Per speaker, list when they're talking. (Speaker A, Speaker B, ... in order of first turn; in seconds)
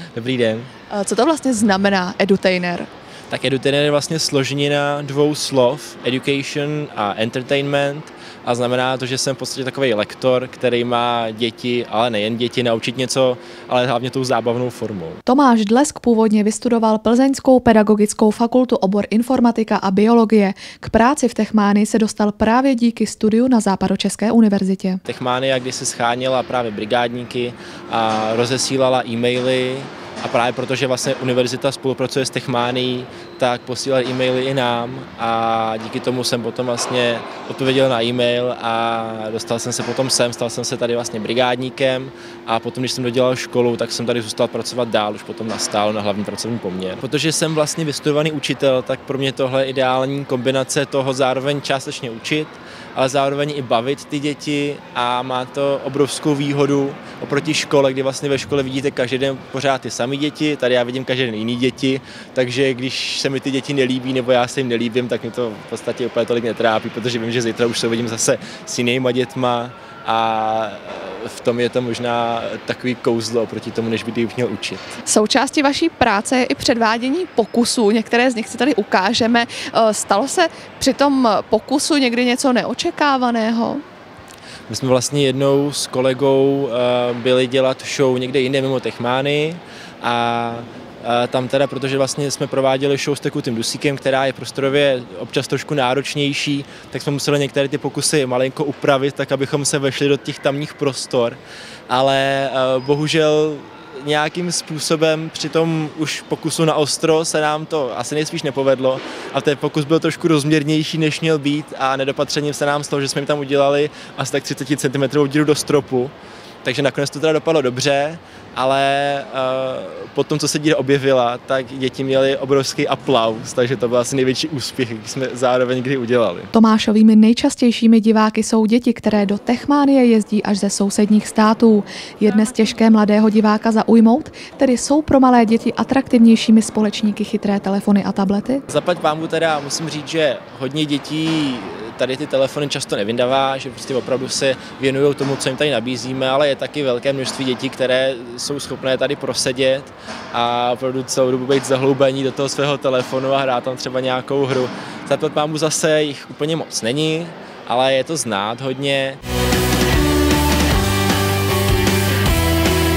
Speaker A: 0.1-0.7, 3.3-15.2, 25.1-74.9, 84.7-116.1, 116.6-126.5, 138.7-159.2
Speaker B: 0.9-2.9, 15.3-25.0, 75.0-83.8, 126.5-138.6